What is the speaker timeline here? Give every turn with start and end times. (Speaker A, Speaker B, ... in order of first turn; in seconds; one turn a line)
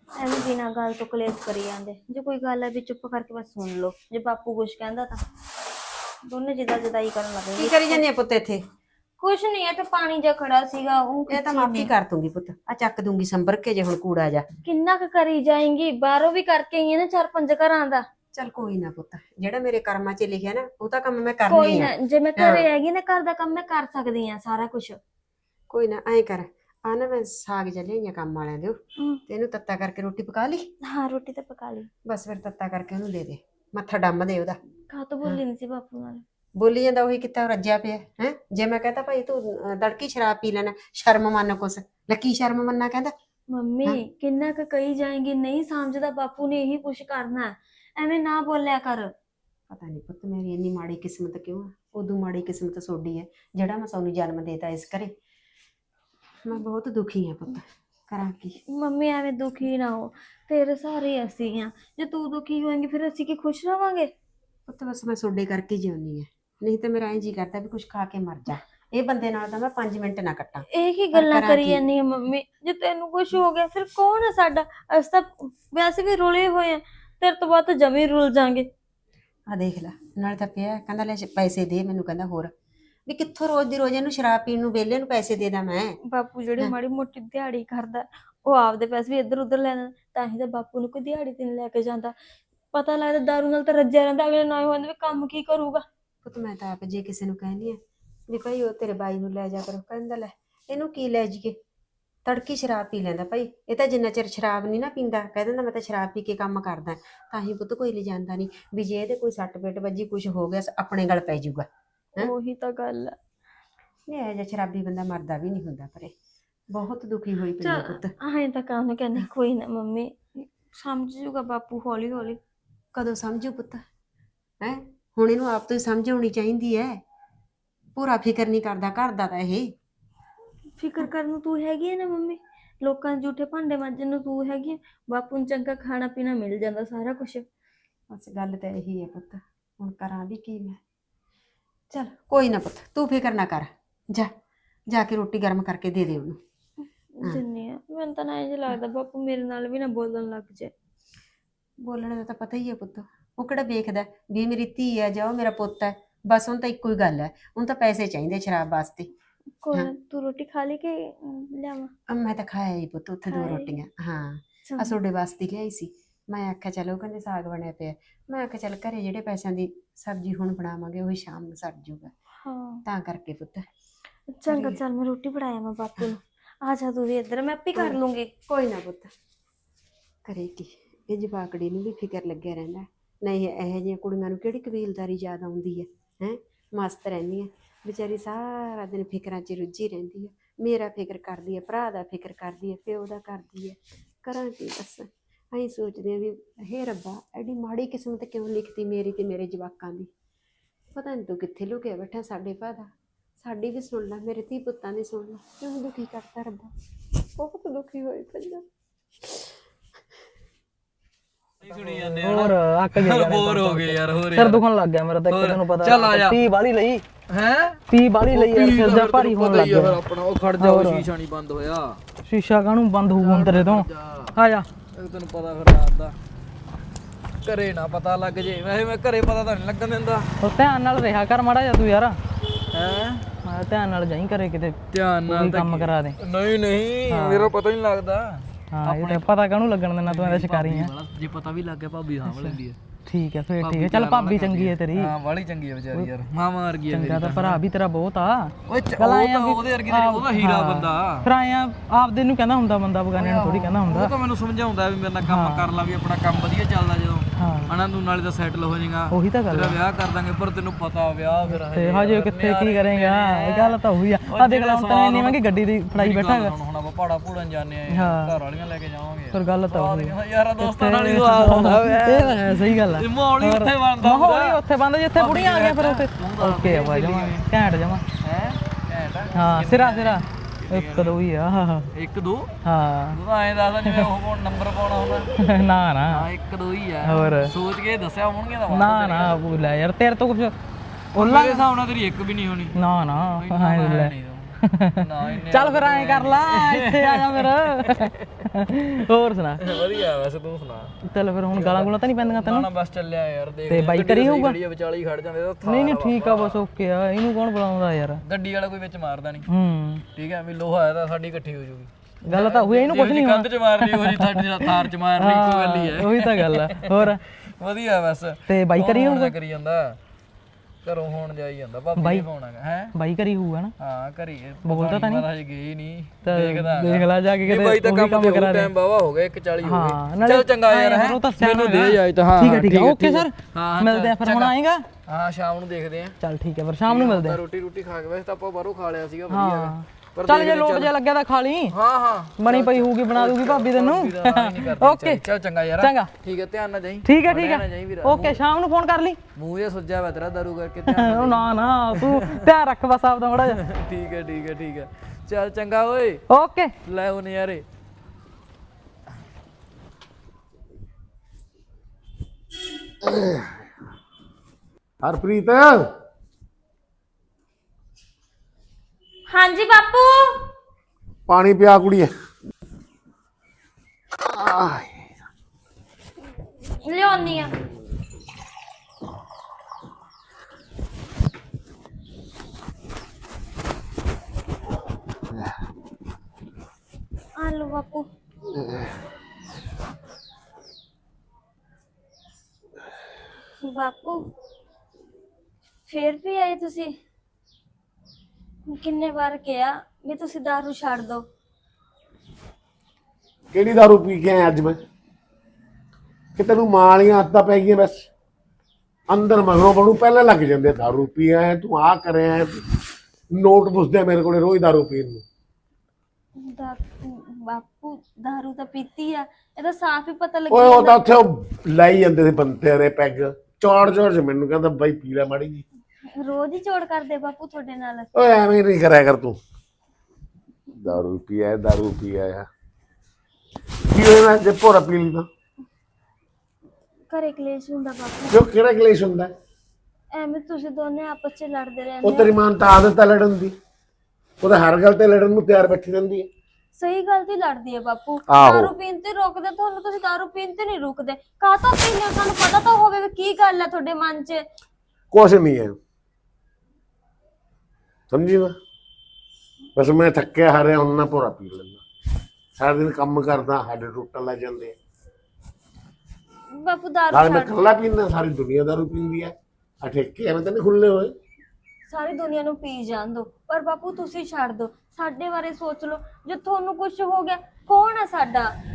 Speaker A: 0.2-5.2
Speaker A: 6.2-8.0
Speaker B: 7.6-8.6
Speaker A: 9.2-11.9
Speaker B: 11.3-14.5
Speaker A: 14.6-18.1
Speaker B: 18.3-22.6
Speaker A: 21.5-25.0
Speaker B: 25.7-30.7
Speaker A: 30.8-31.9
Speaker B: 32.0-34.6
Speaker A: 34.9-36.2
Speaker B: 36.5-43.1
Speaker A: 43.5-49.1
Speaker B: 49.7-55.1
Speaker B: 56.4-58.6
Speaker A: 58.7-64.1
Speaker B: 64.7-71.8
Speaker A: 70.7-78.7
Speaker B: 79.5-82.5
Speaker B: 83.1-86.0
Speaker A: 86.1-92.1
Speaker A: 92.7-95.8
Speaker B: 96.2-101.6
Speaker B: 102.2-111.7
Speaker A: 112.2-113.2
Speaker B: 114.1-116.1
Speaker B: 116.7-118.1
Speaker A: 117.6-122.4
Speaker B: 122.9-123.8
Speaker B: 124.6-127.0
Speaker B: 127.9-129.7
Speaker A: 130.8-137.4
Speaker B: 138.1-140.8
Speaker B: 141.9-144.3
Speaker B: 144.9-146.4
Speaker A: 147.2-150.7
Speaker B: 151.8-159.1
Speaker A: 159.6-161.9
Speaker B: 162.1-172.1
Speaker A: 163.3-163.7
Speaker A: 164.7-164.9
Speaker A: 172.4-172.8
Speaker B: 172.8-173.7
Speaker A: 174.3-178.3
Speaker B: 174.5-174.8
Speaker B: 177.8-179.1
Speaker B: 180.2-200.1
Speaker B: 200.9-206.7
Speaker B: 207.3-208.6
Speaker B: 209.2-209.5
Speaker C: 211.6-214.6
Speaker D: 211.9-217.0
Speaker C: 215.3-216.4
Speaker C: 217.3-222.0
Speaker D: 217.9-220.0
Speaker D: 220.6-221.1
Speaker D: 222.3-224.7
Speaker C: 223.1-224.3
Speaker C: 224.9-226.2
Speaker C: 227.4-230.3
Speaker D: 230.4-232.2
Speaker C: 232.7-233.3
Speaker D: 233.4-234.8
Speaker C: 234.9-239.3
Speaker D: 235.3-236.2
Speaker D: 237.1-237.5
Speaker D: 238.7-240.9
Speaker C: 240.0-242.8
Speaker D: 242.3-245.1
Speaker C: 243.6-247.6
Speaker D: 246.9-254.1
Speaker C: 248.7-251.3
Speaker C: 253.1-265.4
Speaker D: 255.2-255.7
Speaker D: 257.4-257.7
Speaker D: 259.1-259.8
Speaker D: 261.5-266.5
Speaker C: 265.9-274.6
Speaker D: 267.9-268.3
Speaker D: 269.3-278.0
Speaker C: 275.1-277.5
Speaker C: 278.2-281.2
Speaker D: 279.3-281.9
Speaker C: 281.9-282.5
Speaker D: 282.6-283.2
Speaker C: 283.1-285.4
Speaker D: 285.4-286.2
Speaker C: 286.1-289.5
Speaker D: 287.0-287.5
Speaker D: 288.7-290.5
Speaker C: 291.1-292.8
Speaker D: 291.1-291.7
Speaker D: 292.7-299.6
Speaker C: 293.4-298.1
Speaker C: 299.6-300.9
Speaker D: 301.1-302.7
Speaker C: 301.5-306.6
Speaker D: 303.7-304.6
Speaker D: 305.6-308.2
Speaker C: 308.2-309.5
Speaker D: 309.5-310.0
Speaker C: 310.1-320.0
Speaker D: 312.2-317.2
Speaker D: 318.5-319.3
Speaker C: 320.8-322.9
Speaker D: 322.0-322.2
Speaker D: 322.9-323.7
Speaker C: 323.8-334.5
Speaker D: 324.6-325.3
Speaker D: 326.2-328.7
Speaker D: 329.6-334.8
Speaker C: 335.1-336.1
Speaker D: 336.2-337.4
Speaker C: 336.9-340.9
Speaker D: 339.3-341.7
Speaker C: 341.7-348.4
Speaker D: 342.4-345.2
Speaker D: 345.8-346.1
Speaker D: 347.0-349.2
Speaker C: 349.4-352.5
Speaker D: 350.9-353.6
Speaker C: 353.4-356.2
Speaker D: 356.3-356.7
Speaker C: 356.8-357.6
Speaker E: 363.0-363.6
Speaker E: 365.0-365.9
Speaker A: 369.3-370.4
Speaker E: 371.3-372.1
Speaker E: 374.2-375.0
Speaker A: 376.8-377.5
Speaker A: 387.4-388.1
Speaker A: 393.6-394.3
Speaker A: 395.9-396.9
Speaker A: 398.7-401.2
Speaker E: 403.5-404.8
Speaker E: 406.4-408.1
Speaker E: 409.1-412.6
Speaker E: 413.3-415.2
Speaker A: 416.4-421.2
Speaker E: 420.5-425.6
Speaker A: 426.1-428.1
Speaker E: 428.1-429.4
Speaker E: 430.8-432.5
Speaker E: 433.9-435.3
Speaker A: 437.1-438.4
Speaker E: 438.3-439.3
Speaker A: 440.1-442.3
Speaker E: 442.0-443.6
Speaker E: 444.4-446.3
Speaker A: 446.8-454.4
Speaker E: 448.3-448.7
Speaker E: 455.1-455.8
Speaker E: 458.1-458.6
Speaker E: 459.8-461.8
Speaker E: 462.6-464.8
Speaker A: 466.5-467.8
Speaker E: 467.1-471.1
Speaker A: 471.9-478.5